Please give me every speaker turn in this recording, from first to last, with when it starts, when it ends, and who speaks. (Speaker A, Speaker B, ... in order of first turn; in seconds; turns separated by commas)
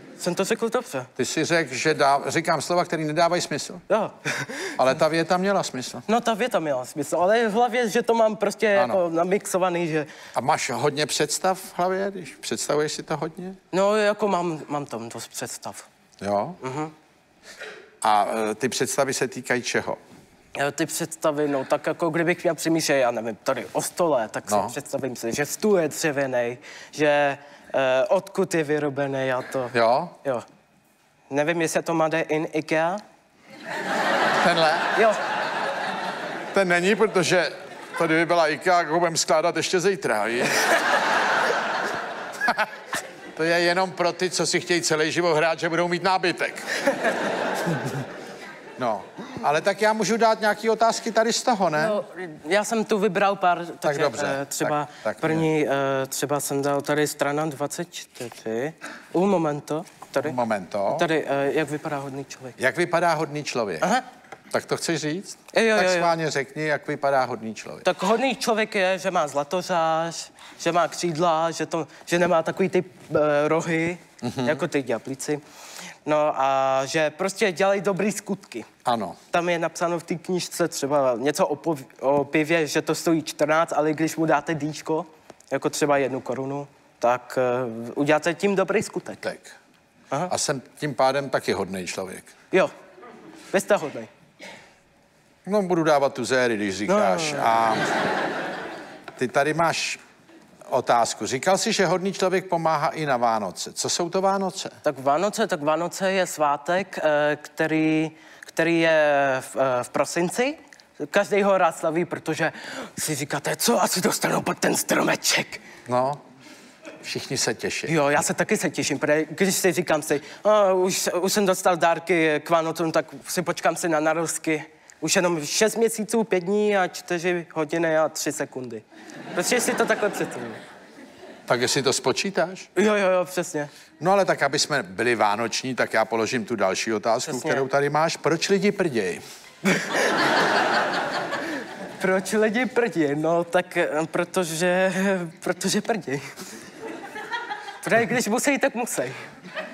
Speaker A: 0.2-1.1, Speaker B: 1.2-3.8, Speaker A: 3.9-4.8, Speaker B: 4.8-6.0, Speaker A: 6.1-10.1, Speaker B: 8.7-9.0, Speaker B: 10.3-13.6, Speaker A: 13.7-15.9, Speaker B: 16.2-16.6, Speaker A: 16.6-16.9, Speaker B: 18.0-20.0, Speaker A: 20.5-30.4, Speaker B: 24.5-24.7, Speaker B: 29.7-30.1, Speaker A: 31.3-33.0, Speaker B: 34.4-34.9, Speaker A: 34.9-35.2, Speaker B: 36.5-40.8, Speaker B: 43.3-46.8, Speaker B: 48.8-52.0, Speaker A: 51.7-60.4, Speaker B: 53.8-55.5, Speaker B: 60.2-61.1, Speaker A: 60.9-62.6, Speaker B: 62.6-63.9, Speaker B: 64.5-67.8, Speaker A: 65.5-66.1, Speaker A: 67.8-75.4, Speaker B: 74.2-74.6, Speaker A: 76.0-78.7, Speaker B: 78.8-79.2, Speaker A: 79.3-89.2, Speaker B: 89.2-89.5, Speaker B: 90.3-92.3, Speaker A: 93.5-94.1, Speaker B: 95.5-97.9, Speaker A: 96.9-97.7, Speaker B: 99.2-100.0, Speaker B: 100.7-104.8, Speaker A: 104.8-115.6, Speaker B: 115.9-116.2, Speaker B: 117.0-117.9, Speaker A: 117.9-130.6, Speaker B: 131.5-132.7, Speaker A: 132.7-133.7, Speaker B: 134.0-139.2, Speaker A: 137.2-137.7, Speaker A: 139.7-140.0, Speaker A: 142.0-146.3, Speaker A: 147.8-149.2